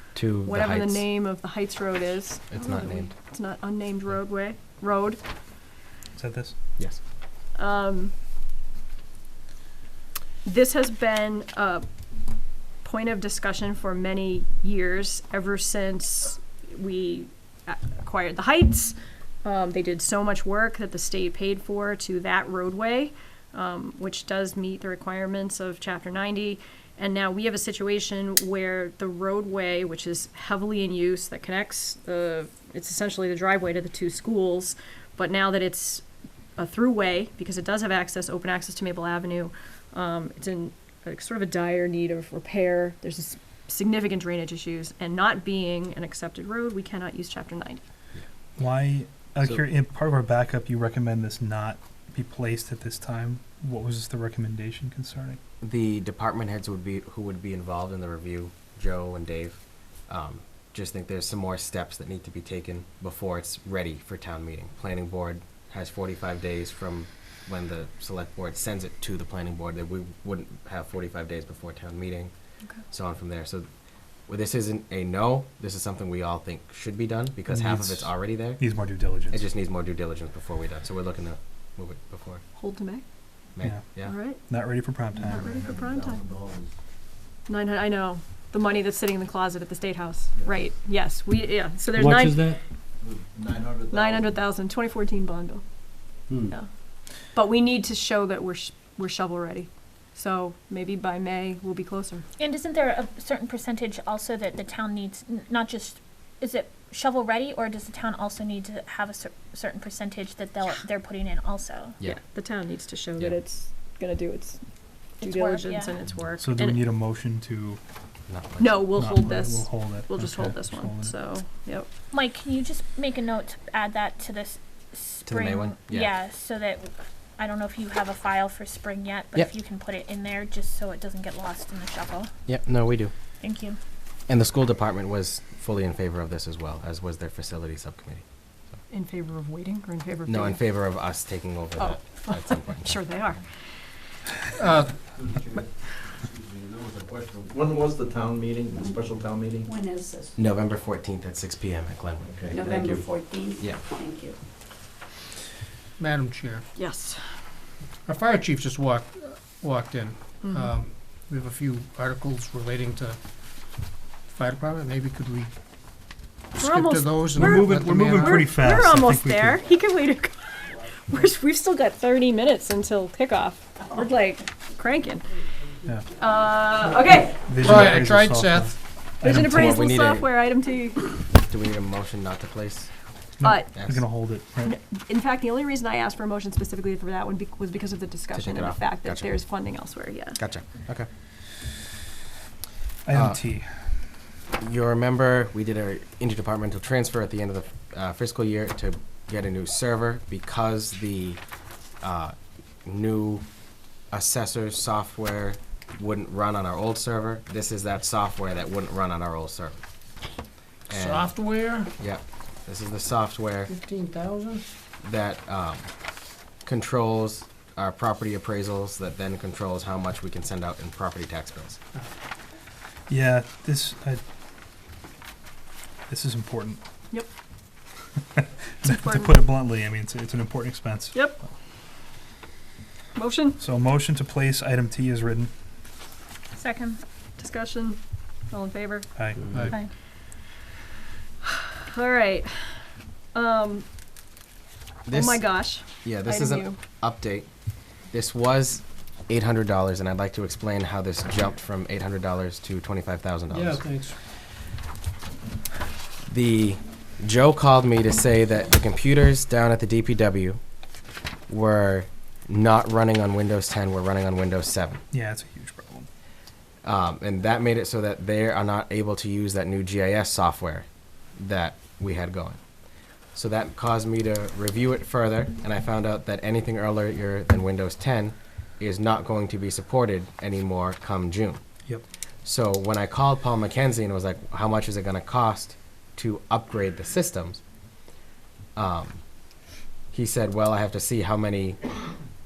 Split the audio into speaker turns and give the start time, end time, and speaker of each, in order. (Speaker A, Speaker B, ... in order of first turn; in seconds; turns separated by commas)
Speaker A: 0.1-1.1, Speaker B: 0.4-5.2, Speaker A: 2.5-3.1, Speaker C: 6.1-6.5, Speaker B: 7.5-8.1, Speaker B: 10.4-11.8, Speaker B: 12.8-36.0, Speaker B: 36.6-47.8, Speaker C: 48.6-55.4, Speaker A: 55.6-72.3, Speaker A: 72.9-73.7, Speaker A: 74.3-78.6, Speaker C: 77.5-79.4, Speaker A: 79.3-82.4, Speaker B: 82.5-83.0, Speaker A: 83.5-84.1, Speaker B: 84.0-84.4, Speaker C: 84.4-85.6, Speaker B: 85.2-86.2, Speaker D: 85.3-86.7, Speaker B: 87.5-92.5, Speaker D: 93.0-94.3, Speaker B: 93.9-95.6, Speaker B: 97.3-102.2, Speaker E: 102.4-112.0, Speaker B: 112.0-114.6, Speaker E: 115.2-116.0, Speaker B: 115.2-116.8, Speaker C: 116.4-117.8, Speaker A: 118.3-118.9, Speaker B: 118.6-121.9, Speaker C: 118.9-121.2, Speaker E: 122.1-132.3, Speaker A: 125.2-126.1, Speaker A: 132.5-133.1, Speaker E: 133.4-133.8, Speaker A: 134.3-138.2, Speaker B: 138.9-140.6, Speaker A: 140.3-143.0, Speaker B: 141.8-143.4, Speaker F: 144.6-145.1, Speaker D: 145.2-145.6, Speaker D: 146.2-149.7, Speaker G: 149.6-150.3, Speaker A: 150.4-153.8, Speaker D: 152.4-152.7, Speaker G: 152.5-154.3, Speaker F: 156.0-156.7, Speaker B: 156.7-157.2, Speaker F: 158.1-163.2, Speaker B: 160.4-160.7, Speaker F: 164.2-165.5, Speaker F: 166.5-168.5, Speaker B: 166.6-175.3, Speaker C: 167.3-169.6, Speaker B: 176.2-177.5, Speaker C: 177.4-179.8, Speaker F: 177.6-178.8, Speaker B: 179.2-181.1, Speaker A: 179.5-180.3, Speaker A: 181.4-182.9, Speaker C: 183.4-184.8, Speaker B: 183.4-183.7, Speaker A: 183.7-184.0, Speaker B: 184.6-190.4, Speaker A: 188.3-189.3, Speaker A: 190.4-191.1, Speaker C: 193.0-193.8, Speaker A: 193.1-193.4, Speaker A: 194.6-201.4, Speaker A: 202.0-203.4, Speaker A: 204.1-209.8, Speaker A: 210.9-211.3, Speaker F: 210.9-211.9, Speaker A: 212.0-213.7, Speaker F: 213.7-214.7, Speaker A: 215.0-215.9, Speaker A: 216.6-221.8, Speaker C: 223.1-224.2, Speaker C: 226.1-226.8, Speaker C: 228.3-231.5, Speaker B: 228.8-229.3, Speaker B: 231.1-231.4, Speaker B: 233.1-233.6, Speaker C: 233.6-235.5, Speaker E: 236.6-237.0, Speaker B: 237.4-239.1, Speaker C: 239.2-239.7, Speaker B: 241.4-242.8, Speaker B: 243.3-243.8, Speaker A: 245.0-247.5, Speaker B: 245.1-246.8, Speaker A: 248.1-253.8, Speaker F: 253.5-254.2, Speaker A: 256.2-260.6, Speaker A: 261.5-265.0, Speaker C: 265.1-266.1, Speaker A: 266.8-272.6, Speaker A: 273.3-281.6, Speaker A: 282.4-287.6, Speaker A: 288.8-289.2, Speaker A: 290.1-291.8